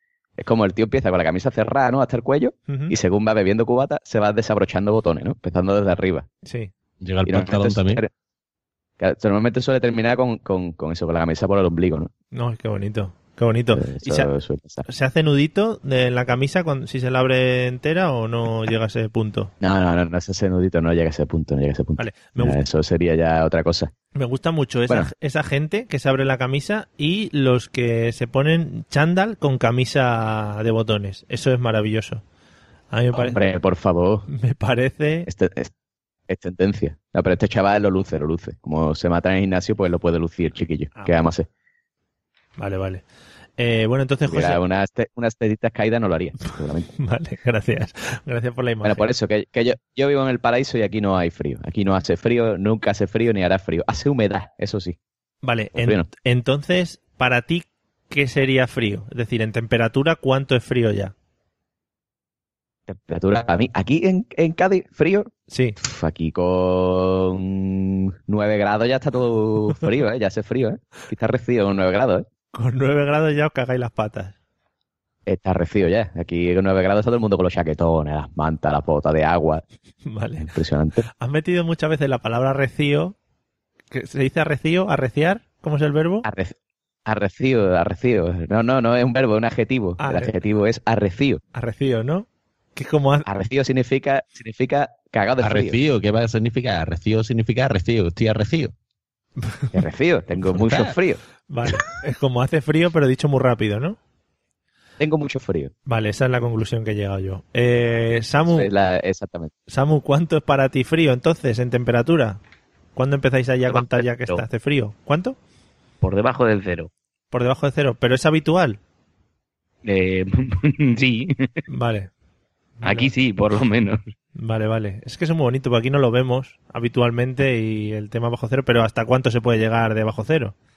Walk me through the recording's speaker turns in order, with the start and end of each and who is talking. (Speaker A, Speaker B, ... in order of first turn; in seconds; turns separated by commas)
Speaker A: 0.4-6.3, Speaker B: 2.7-3.0, Speaker B: 6.5-6.7, Speaker C: 7.0-8.0, Speaker A: 7.3-8.1, Speaker A: 9.0-12.1, Speaker B: 12.3-14.3, Speaker A: 13.7-14.9, Speaker B: 14.9-19.5, Speaker A: 19.6-23.9, Speaker B: 22.0-22.6, Speaker B: 24.1-32.2, Speaker B: 32.9-33.4, Speaker A: 33.1-34.3, Speaker B: 34.3-35.3, Speaker A: 35.3-35.7, Speaker A: 36.3-41.5, Speaker B: 42.6-43.0, Speaker B: 43.6-44.6, Speaker A: 44.3-46.9, Speaker B: 47.0-49.1, Speaker A: 48.8-55.0, Speaker B: 55.4-61.1, Speaker A: 55.8-56.1, Speaker A: 62.9-72.3, Speaker B: 65.5-65.8, Speaker B: 72.5-74.3, Speaker A: 75.3-79.6, Speaker B: 80.1-80.5, Speaker A: 80.4-81.0, Speaker B: 81.1-83.2, Speaker B: 83.9-86.3, Speaker A: 86.2-86.5, Speaker A: 87.1-91.4, Speaker B: 90.0-90.3, Speaker B: 91.5-93.3, Speaker A: 93.3-95.8, Speaker C: 95.4-98.7, Speaker B: 99.4-99.8, Speaker A: 99.7-101.2, Speaker C: 100.5-100.9, Speaker B: 101.5-104.0, Speaker A: 105.0-105.7, Speaker B: 105.9-108.7, Speaker A: 108.5-109.5, Speaker B: 109.7-112.4, Speaker B: 113.0-115.4, Speaker D: 113.7-114.4, Speaker D: 116.0-116.9, Speaker B: 117.3-118.8, Speaker D: 119.8-121.5, Speaker B: 121.7-122.1, Speaker B: 122.8-123.1, Speaker D: 122.8-124.0, Speaker B: 124.4-130.6